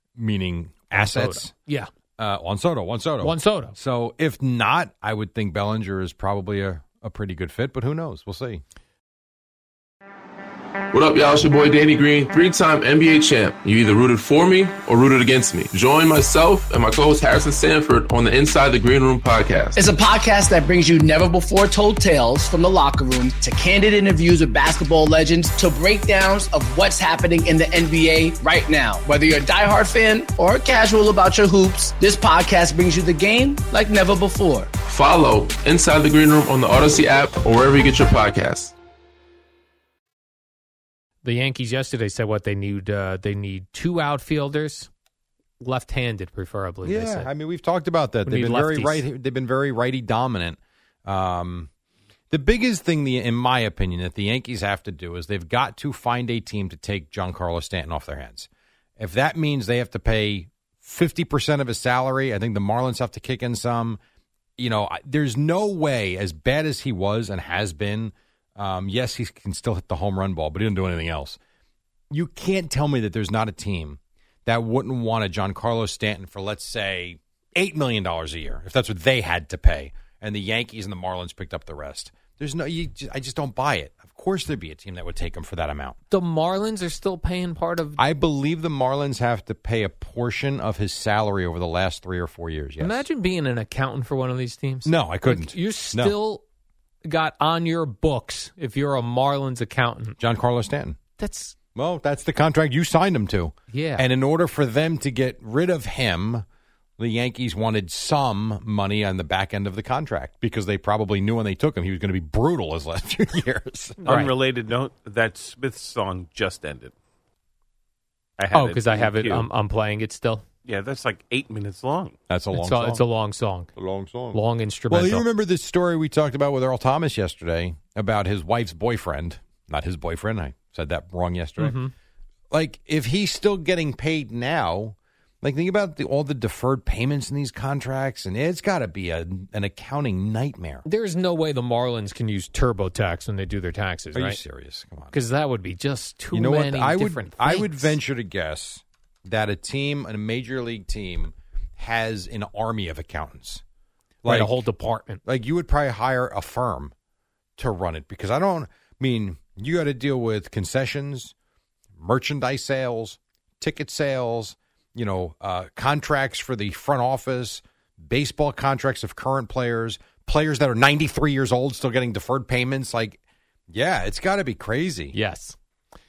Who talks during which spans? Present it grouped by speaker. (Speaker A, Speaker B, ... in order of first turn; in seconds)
Speaker A: 0.1-1.5, 2.2-8.6, 46.8-51.7, 52.3-64.0, 64.6-71.4, 72.1-86.0, 88.0-93.0, 94.8-96.2, 100.2-101.0, 101.8-106.4, 107.0-114.0, 122.3-123.0, 123.8-124.4, 124.9-131.8, 132.5-140.8, 144.1-145.2, 146.3-153.6, 154.2-154.6, 155.2-156.9, 157.6-161.3, 162.0-173.2, 173.7-175.2
Speaker B: 0.9-1.9, 3.2-3.8, 41.2-44.9, 45.6-47.3, 48.2-49.1, 86.1-88.0, 92.8-96.4, 97.0-100.2, 101.2-101.5, 103.7-104.1, 114.0-114.3, 118.5-120.4, 122.5-123.7, 124.3-125.2, 131.6-131.9, 140.8-144.4, 145.1-148.0, 154.2-155.2, 175.1-175.6
Speaker C: 10.9-19.9, 34.9-38.7
Speaker D: 19.8-34.7
Speaker E: 114.0-116.9, 118.4-119.5, 120.6-122.2